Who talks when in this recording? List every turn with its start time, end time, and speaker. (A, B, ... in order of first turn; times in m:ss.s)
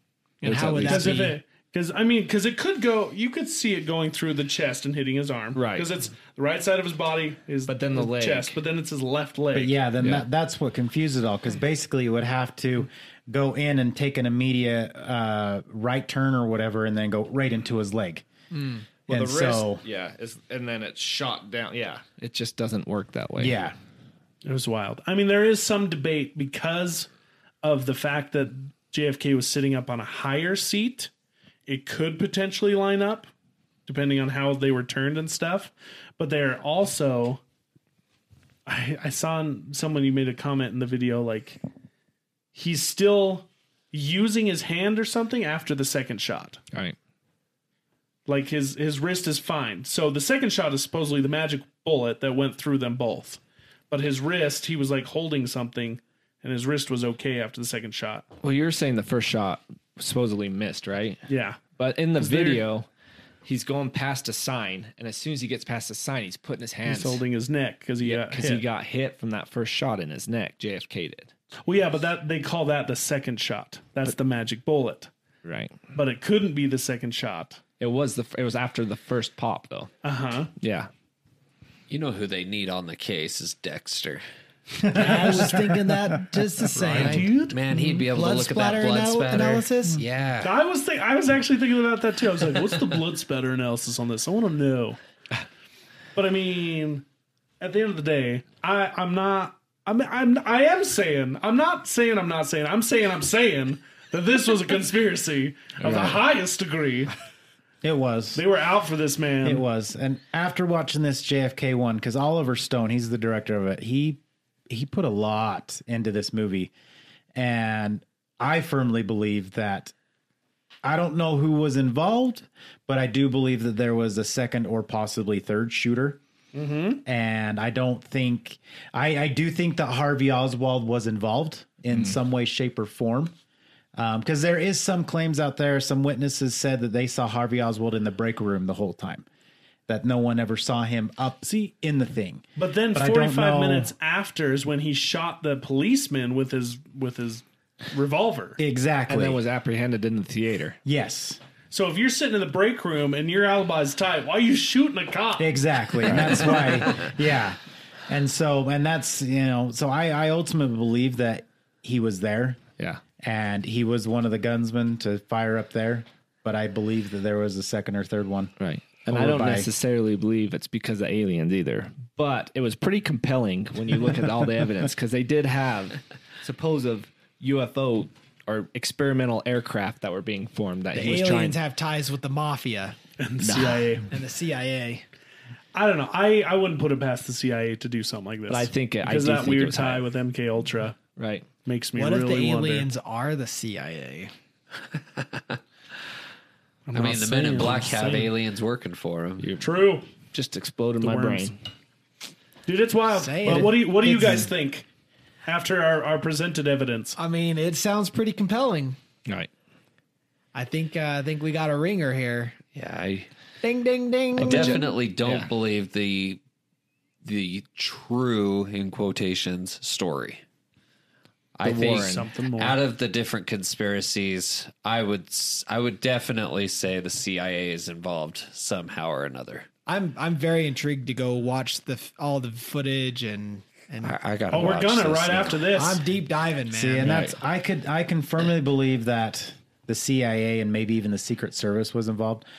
0:00.4-0:01.4 A
0:00.4-0:01.2 B
0:00.8-0:09.8 C
0:05.6-0:05.9 B
0:07.7-0:08.6 B
0:09.5-0:18.3 D
0:10.0-0:10.2 B
0:19.1-0:23.6 B
0:19.1-0:19.8 D
0:23.4-0:23.8 D
0:24.4-0:27.1 C
0:27.6-0:31.1 C
0:31.7-0:33.3 C
0:33.9-0:37.4 C
0:38.7-0:41.6 C
0:42.6-0:46.6 C
0:48.3-0:53.4 C
0:53.9-0:58.3 C
0:58.4-1:01.2 B
1:01.3-1:01.6 C
1:01.8-1:02.9 B
1:02.2-1:02.6 C
1:03.4-1:07.2 B
1:06.9-1:08.6 C
1:08.0-1:11.3 B
1:11.7-1:15.1 C
1:15.4-1:15.8 B
1:15.9-1:17.6 C
1:17.8-1:19.9 B
1:20.0-1:20.5 C
1:20.6-1:20.9 B
1:21.9-1:24.2 E
1:24.8-1:25.7 D
1:24.9-1:30.0 A
1:25.0-1:25.4 C
1:26.7-1:27.6 C
1:27.0-1:30.5 E
1:30.4-1:35.0 C
1:36.2-1:37.0 C
1:37.6-1:47.1 C
1:45.8-1:46.2 B
1:47.8-1:48.4 D
1:48.4-1:49.6 C
1:49.4-1:56.7 D
1:57.4-1:59.9 D
2:00.8-2:06.2 D
2:06.5-2:07.0 C
2:07.0-2:13.3 D
2:14.0-2:19.3 D
2:19.9-2:23.9 D
2:22.6-2:28.6 C
2:28.6-2:29.4 D
2:29.1-2:30.8 B
2:30.8-2:31.4 D
2:31.7-2:35.5 C
2:35.4-2:42.6 D
2:36.1-2:36.4 B
2:43.2-2:48.5 D
2:48.6-3:01.6 B
2:49.1-2:49.7 D
3:01.0-3:03.0 A
3:03.2-3:04.1 C
3:03.4-3:03.9 B
3:04.1-3:05.0 A
3:05.7-3:11.0 C
3:08.5-3:10.1 B
3:11.2-3:11.5 B
3:11.6-3:12.9 C
3:12.0-3:14.3 A
3:15.2-3:15.6 E
3:16.9-3:18.3 C
3:16.9-3:19.5 E
3:19.4-3:19.7 B
3:19.6-3:20.1 C
3:20.3-3:21.6 B
3:21.0-3:21.6 C
3:22.7-3:24.9 C
3:23.1-3:24.5 A
3:25.4-3:27.2 C
3:27.2-3:29.0 A
3:30.5-3:32.6 A
3:32.8-3:33.3 E
3:33.6-3:34.8 A
3:34.4-3:35.5 B
3:34.4-3:36.4 E
3:37.2-3:40.4 E
3:41.6-3:49.7 E
3:41.7-3:42.8 C
3:41.7-3:42.2 B
3:49.9-3:54.2 A
3:54.0-3:55.7 E
3:54.5-3:56.0 C
3:55.7-3:57.3 A
3:56.7-4:02.5 D
3:57.0-3:57.4 B